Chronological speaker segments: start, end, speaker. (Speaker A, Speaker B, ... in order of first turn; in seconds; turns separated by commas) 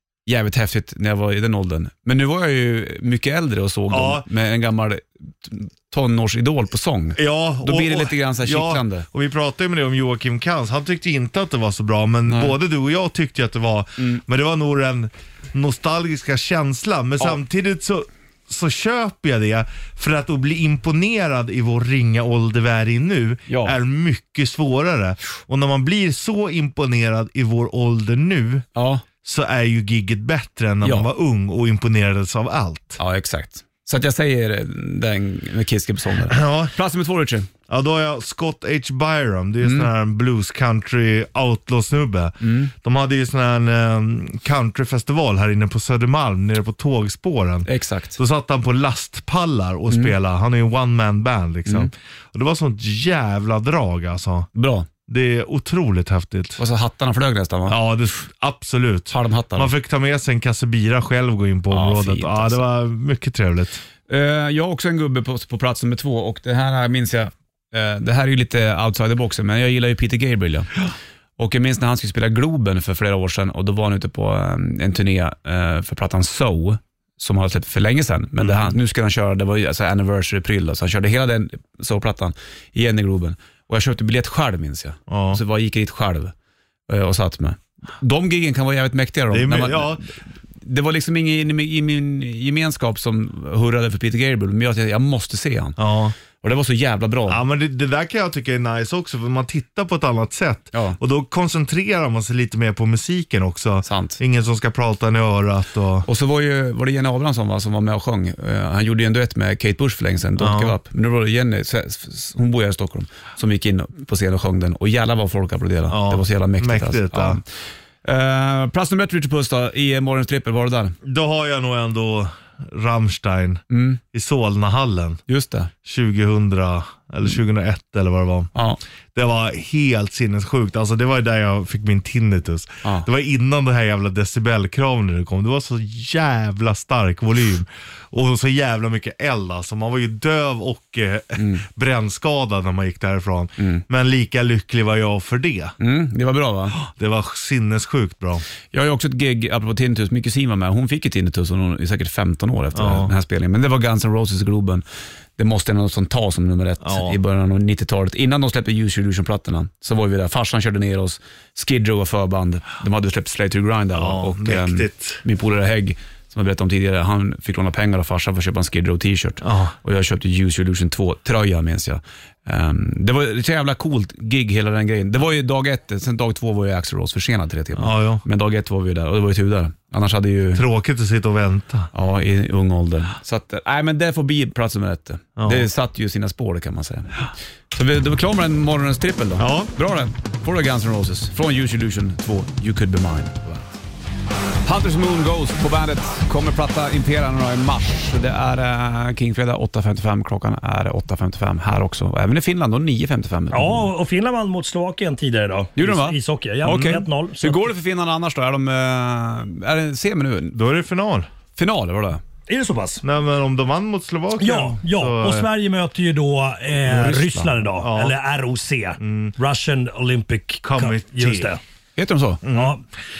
Speaker A: 0.2-9.1, Speaker B: 3.9-4.2, Speaker B: 7.2-28.6, Speaker A: 12.3-12.6, Speaker A: 23.5-23.7, Speaker A: 28.7-29.0, Speaker B: 29.2-33.0, Speaker A: 30.8-31.1, Speaker A: 33.0-37.5, Speaker B: 36.3-36.7, Speaker B: 37.7-54.5, Speaker A: 39.6-39.9, Speaker A: 42.4-42.7, Speaker A: 47.6-48.2, Speaker A: 54.5-54.9, Speaker B: 55.1-56.6, Speaker A: 56.6-57.8, Speaker B: 57.7-63.8, Speaker A: 59.1-59.7, Speaker A: 61.7-62.6, Speaker A: 64.1-70.7, Speaker A: 71.4-86.3, Speaker B: 78.4-78.7, Speaker B: 85.1-85.4, Speaker A: 86.9-95.8, Speaker B: 89.3-90.0, Speaker B: 95.8-96.1, Speaker A: 96.4-97.4, Speaker B: 97.3-106.1, Speaker A: 100.7-101.0, Speaker A: 103.8-104.2, Speaker A: 106.0-117.4, Speaker B: 110.4-110.7, Speaker B: 115.9-117.4, Speaker A: 118.0-120.9, Speaker B: 121.0-125.2, Speaker A: 123.7-124.0, Speaker A: 125.3-125.7, Speaker B: 125.8-128.5, Speaker A: 128.5-128.8, Speaker B: 129.1-145.7, Speaker A: 141.4-141.6, Speaker A: 143.6-143.8, Speaker A: 145.8-146.8, Speaker B: 146.8-148.4, Speaker A: 148.7-154.8, Speaker B: 152.7-153.1, Speaker A: 155.4-180.6, Speaker B: 156.8-157.2, Speaker B: 163.9-165.2, Speaker B: 169.4-169.7, Speaker B: 177.8-178.2, Speaker B: 180.5-181.9, Speaker A: 181.9-193.8, Speaker B: 185.4-185.7, Speaker B: 189.4-189.7, Speaker A: 194.6-203.9, Speaker C: 203.5-207.7, Speaker A: 205.8-210.6, Speaker B: 206.7-206.9, Speaker B: 210.5-211.3, Speaker A: 211.6-212.2, Speaker C: 212.5-213.0, Speaker B: 213.0-215.5, Speaker C: 214.4-221.6, Speaker A: 216.8-217.5, Speaker B: 217.8-218.1, Speaker B: 219.0-219.3, Speaker B: 220.6-221.5, Speaker A: 221.9-222.4, Speaker B: 222.4-222.8, Speaker C: 222.5-222.8